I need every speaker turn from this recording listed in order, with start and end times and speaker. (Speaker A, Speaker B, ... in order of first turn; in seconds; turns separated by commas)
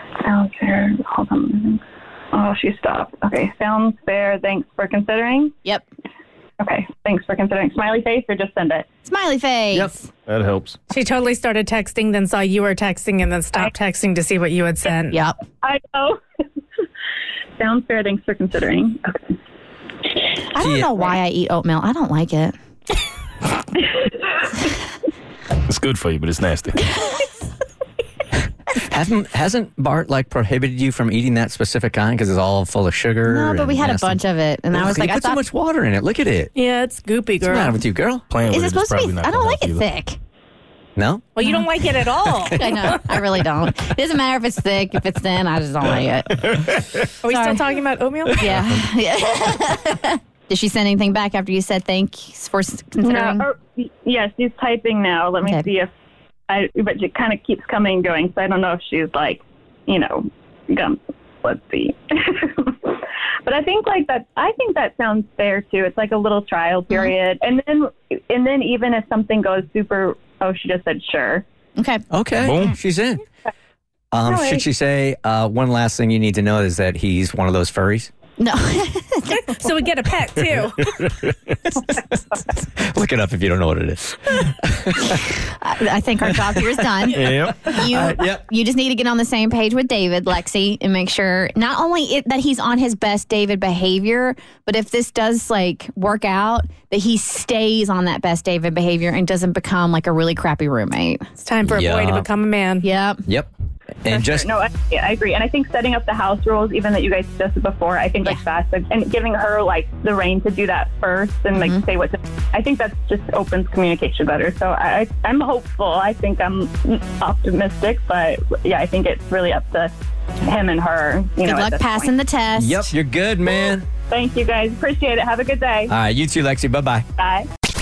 Speaker A: 0.2-1.8, Speaker A: 2.3-5.5, Speaker A: 6.6-8.8, Speaker B: 9.1-10.1, Speaker C: 10.3-10.8, Speaker D: 10.9-15.2, Speaker A: 15.6-16.2, Speaker A: 17.6-19.4, Speaker B: 20.5-22.5, Speaker E: 20.6-20.9, Speaker C: 25.7-26.8, Speaker E: 28.9-34.2, Speaker B: 33.3-35.4, Speaker E: 34.7-36.5, Speaker D: 36.5-37.8, Speaker E: 37.4-38.2, Speaker C: 38.3-39.8, Speaker B: 38.5-40.2, Speaker E: 41.0-41.3, Speaker D: 41.3-43.0, Speaker B: 42.5-46.5, Speaker C: 46.5-46.8, Speaker D: 47.2-48.5, Speaker B: 47.3-47.6, Speaker B: 48.4-53.5, Speaker A: 53.0-55.9, Speaker A: 56.5-71.4, Speaker B: 71.8-72.0, Speaker E: 72.1-73.2, Speaker C: 72.4-72.7, Speaker E: 74.1-78.1, Speaker A: 74.2-74.6, Speaker B: 78.4-79.6, Speaker D: 79.3-80.8, Speaker C: 81.0-81.5, Speaker E: 82.8-85.2, Speaker B: 85.1-101.2, Speaker C: 87.1-87.7, Speaker E: 87.8-88.4, Speaker D: 101.4-102.9, Speaker E: 101.7-102.3, Speaker B: 102.8-103.2, Speaker E: 104.0-104.5, Speaker A: 104.1-122.1, Speaker B: 111.5-111.8, Speaker B: 121.4-122.9, Speaker E: 122.5-123.8, Speaker A: 124.1-125.9, Speaker E: 125.9-127.0, Speaker A: 127.2-127.5